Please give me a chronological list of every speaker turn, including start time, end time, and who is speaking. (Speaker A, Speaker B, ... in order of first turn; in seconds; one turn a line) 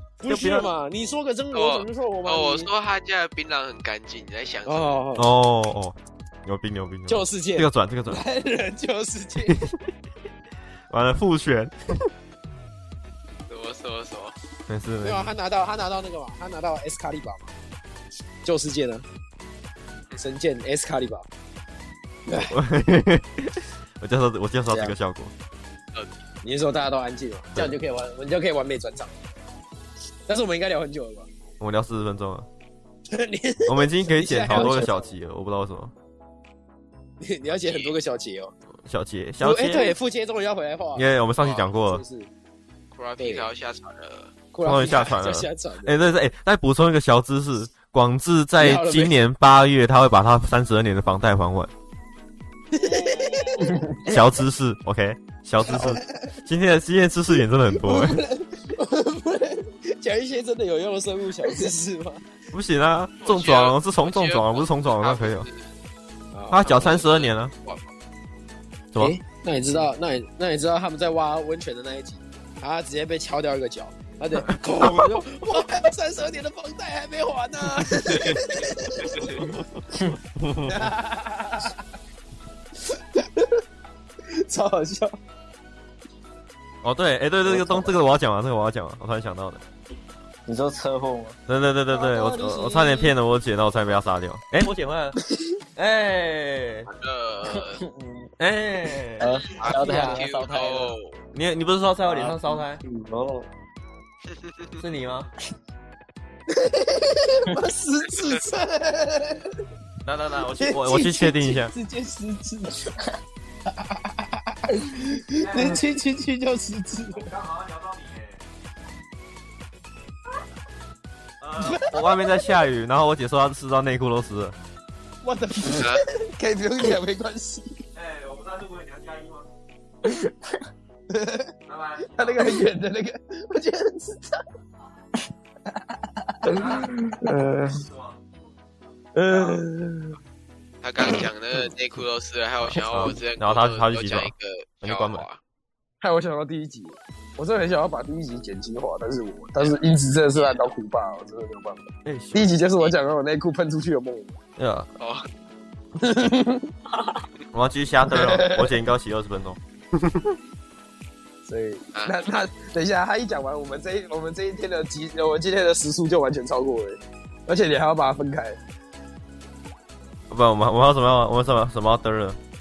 Speaker A: 0.2-2.7
Speaker B: 0.2-0.7
Speaker C: 1.5-5.0
Speaker A: 4.7-5.3
Speaker B: 5.1-8.2
Speaker A: 7.1-9.6
Speaker B: 9.5-9.7
Speaker B: 10.9-11.7
Speaker C: 13.5-14.3
Speaker B: 14.7-15.3
Speaker A: 15.0-17.5
Speaker A: 18.4-19.0
Speaker A: 20.2-21.2
Speaker A: 22.2-22.6
Speaker B: 22.4-25.3
Speaker A: 24.7-24.9
Speaker C: 25.9-26.2
Speaker A: 26.4-29.1
Speaker A: 30.3-31.3
Speaker B: 31.6-32.5
Speaker A: 33.1-35.1
Speaker B: 33.6-35.9
Speaker D: 34.5-34.8
Speaker A: 37.2-38.5
Speaker C: 37.6-38.0
Speaker B: 38.9-39.9
Speaker A: 39.4-41.0
Speaker B: 40.9-42.0
Speaker C: 41.4-41.7
Speaker A: 41.8-42.3
Speaker C: 43.0-44.3
Speaker A: 43.2-43.5
Speaker A: 44.5-46.0
Speaker B: 44.6-51.7
Speaker A: 48.6-49.1
Speaker A: 52.7-54.2
Speaker D: 53.2-54.0
Speaker B: 54.0-58.2
Speaker A: 55.6-56.1
Speaker A: 57.8-62.2
Speaker B: 62.5-65.5
Speaker C: 63.2-65.7
Speaker A: 66.3-66.9
Speaker B: 66.5-67.5
Speaker C: 66.6-67.9
Speaker A: 69.0-79.6
Speaker B: 74.5-75.2
Speaker B: 78.1-78.4
Speaker B: 80.4-80.9
Speaker A: 80.6-81.8
Speaker A: 82.8-83.6
Speaker A: 84.3-85.2
Speaker B: 86.8-89.6
Speaker D: 87.5-87.9
Speaker D: 90.5-91.4
Speaker B: 91.5-95.2
Speaker D: 92.1-93.0
Speaker B: 95.8-96.9
Speaker C: 96.9-97.8
Speaker D: 97.5-98.3
Speaker B: 98.4-99.3
Speaker D: 99.2-100.9
Speaker C: 99.2-101.1
Speaker B: 99.8-100.2
Speaker B: 101.3-102.8
Speaker D: 102.1-103.5
Speaker C: 104.3-104.8
Speaker B: 104.8-105.3
Speaker A: 106.5-109.6
Speaker B: 110.0-111.7
Speaker A: 110.6-112.9
Speaker A: 113.7-117.3
Speaker B: 115.3-115.9
Speaker B: 117.1-118.4
Speaker B: 121.4-124.6
Speaker A: 121.6-122.2
Speaker A: 125.2-127.8
Speaker C: 125.7-126.0
Speaker B: 127.9-129.5
Speaker A: 131.1-131.5
Speaker B: 131.7-132.6
Speaker A: 132.0-134.4
Speaker A: 136.4-137.8
Speaker B: 136.4-137.0
Speaker B: 137.7-138.2
Speaker A: 139.1-140.2
Speaker C: 140.8-145.4
Speaker B: 142.6-144.3
Speaker B: 144.8-145.2
Speaker A: 146.0-154.4
Speaker C: 150.3-150.7
Speaker B: 152.1-152.6
Speaker B: 154.6-154.9
Speaker C: 155.0-155.3
Speaker A: 156.0-156.7
Speaker B: 157.5-160.4
Speaker A: 158.1-158.8
Speaker A: 161.4-168.6
Speaker B: 170.3-172.4